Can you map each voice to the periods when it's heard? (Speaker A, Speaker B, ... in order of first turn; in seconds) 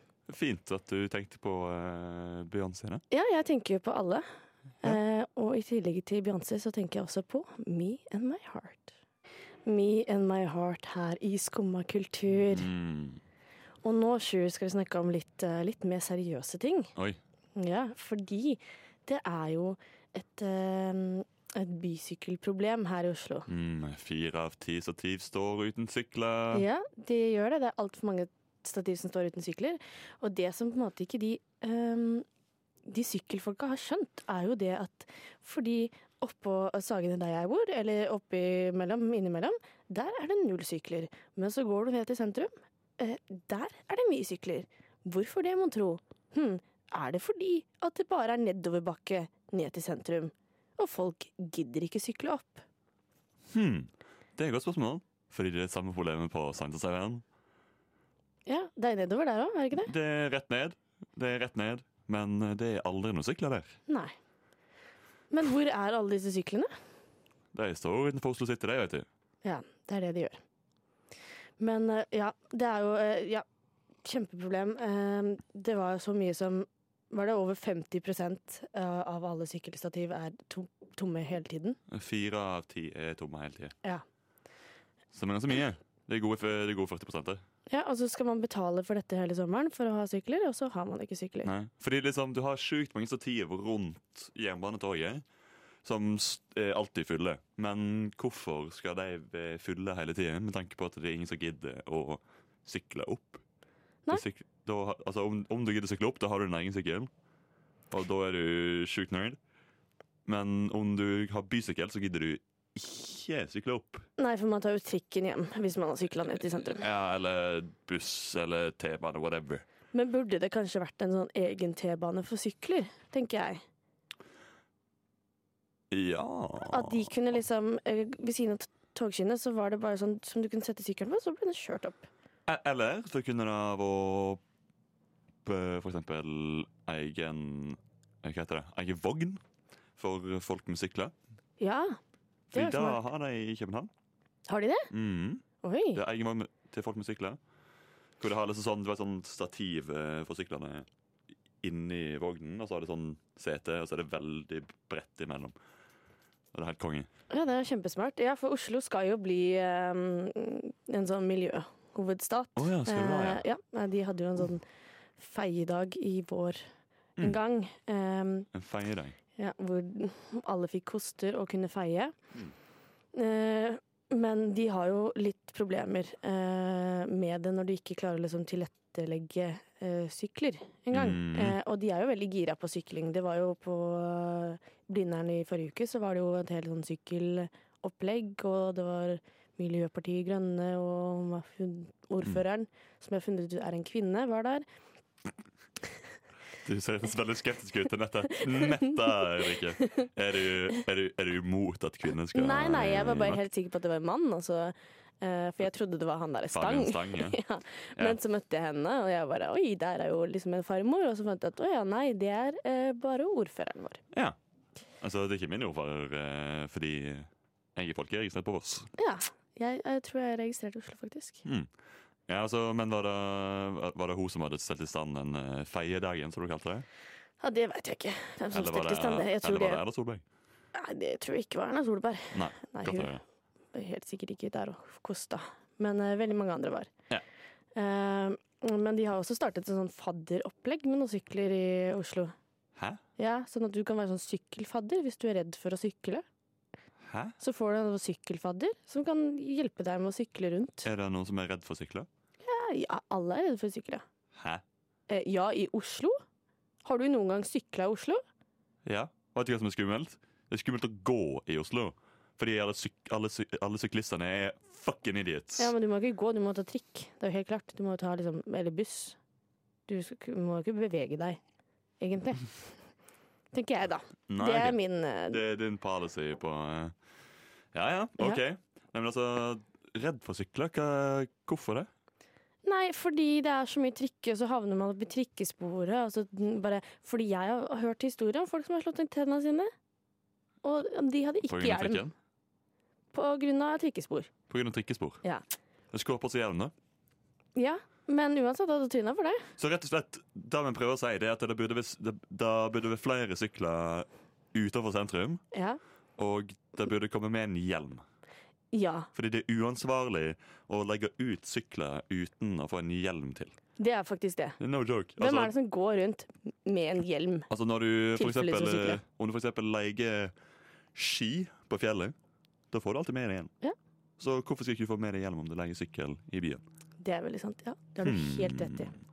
Speaker A: 0.3-3.0, 12.5-13.2, 23.5-26.7, 53.5-57.2, 59.8-63.8, 67.5-69.1, 81.9-83.8, 85.1-87.4, 91.4-95.2, 95.8-103.4, 104.1-107.1, 107.9-109.4, 110.3-114.0, 116.8-119.7, 125.9-127.1, 132.5-134.4, 135.4-139.4, 140.0-141.1, 142.5-143.9, 144.9-147.4, 148.2-150.9, 151.6-155.6, 156.5-157.1, 162.6-163.4, 168.5-169.2, 180.9-181.6, 196.6-203.4, 206.5-207.4, 215.0-218.9, 221.4-221.7, 222.3-226.9, 228.5-230.2, 232.3-233.2, 247.0-247.4, 250.8-252.1, 254.3-254.6, 258.9-265.7, 274.3-274.8, 275.3-276.9, 277.7-281.9, 291.5-292.1, 294.5-295.2, 295.9-296.7, 299.6-305.4, 306.2-308.0, 309.1-313.5, 314.6-315.5, 317.5-320.3, 320.9-322.1, 322.7-323.5, 324.2-326.6, 328.0-328.9
Speaker B: 3.1-4.2, 4.8-8.9, 9.7-12.7, 13.8-16.9, 17.6-23.5, 26.5-32.3, 32.9-52.6, 58.5-59.9, 63.9-64.1, 65.3-66.7, 69.4-70.4, 71.6-73.5, 74.0-81.8, 87.7-91.5, 114.2-116.8, 119.9-123.6, 126.7-132.1, 141.6-142.0, 142.5-143.0, 144.5-144.9, 145.6-146.0, 157.3-164.6, 165.2-166.6, 167.2-168.5, 169.4-172.2, 173.1-194.7, 202.3-214.0, 219.0-221.4, 227.4-229.8, 230.8-233.1, 233.7-236.9, 237.8-242.3, 243.2-246.2, 247.4-250.9, 252.4-254.0, 255.1-256.2, 256.8-258.2, 265.6-269.2, 269.9-271.4, 272.0-272.5, 273.5-275.4, 282.6-289.7, 290.6-292.1, 293.1-294.3, 297.6-299.5, 305.5-305.8, 308.7-309.1, 313.8-314.6, 315.2-317.5, 318.2-319.0, 327.0-328.9